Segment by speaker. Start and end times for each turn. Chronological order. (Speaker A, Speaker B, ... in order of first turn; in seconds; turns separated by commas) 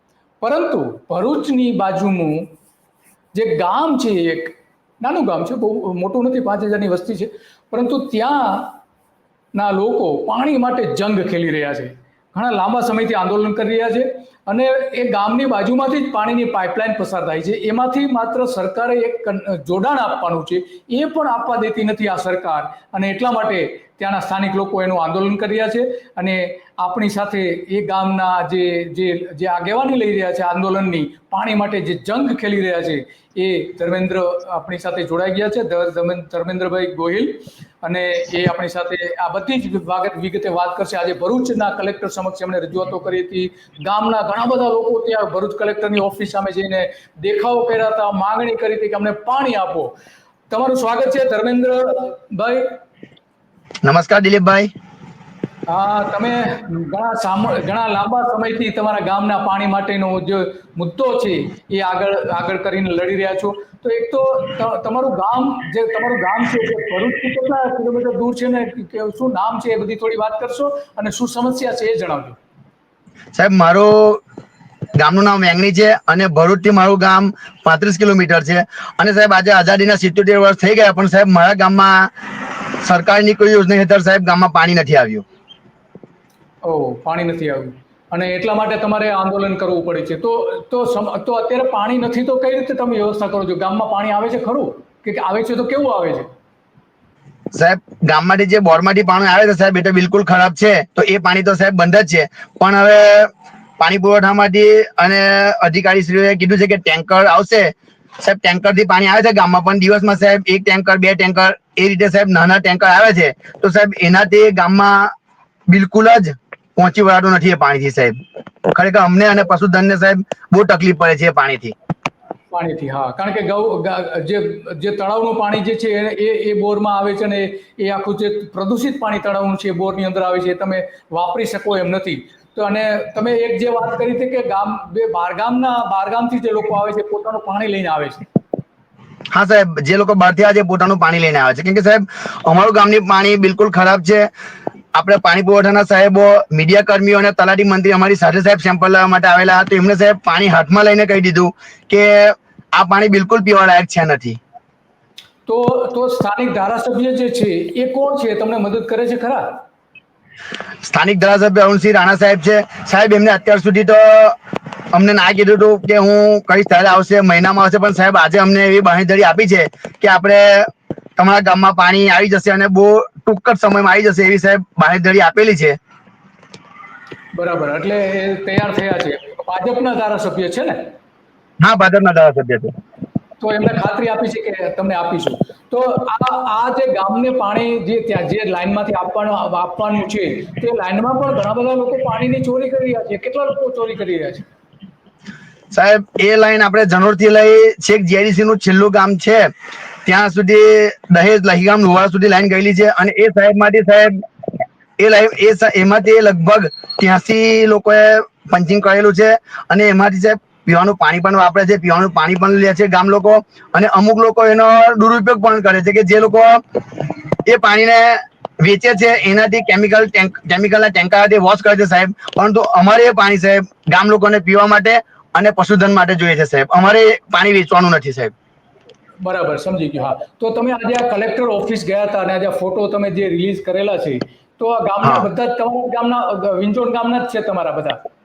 Speaker A: 0.4-2.5, Speaker A: 3.3-8.8, Speaker A: 9.6-49.9, Speaker A: 50.5-52.8, Speaker B: 53.8-54.7, Speaker A: 55.7-72.4, Speaker B: 73.3-74.2, Speaker B: 75.0-82.1, Speaker B: 82.8-85.2, Speaker A: 86.6-96.3, Speaker B: 97.5-115.1, Speaker B: 115.7-118.1, Speaker B: 118.7-121.7, Speaker A: 122.5-138.2, Speaker B: 139.3-144.3, Speaker B: 144.9-154.4, Speaker A: 155.5-159.6, Speaker B: 160.8-164.4, Speaker B: 164.9-170.7, Speaker B: 171.2-175.8, Speaker A: 177.3-180.9, Speaker B: 181.6-182.7, Speaker A: 183.4-194.4, Speaker B: 195.7-199.5, Speaker B: 200.1-204.2, Speaker B: 205.0-216.5, Speaker B: 217.5-228.3, Speaker A: 229.2-238.0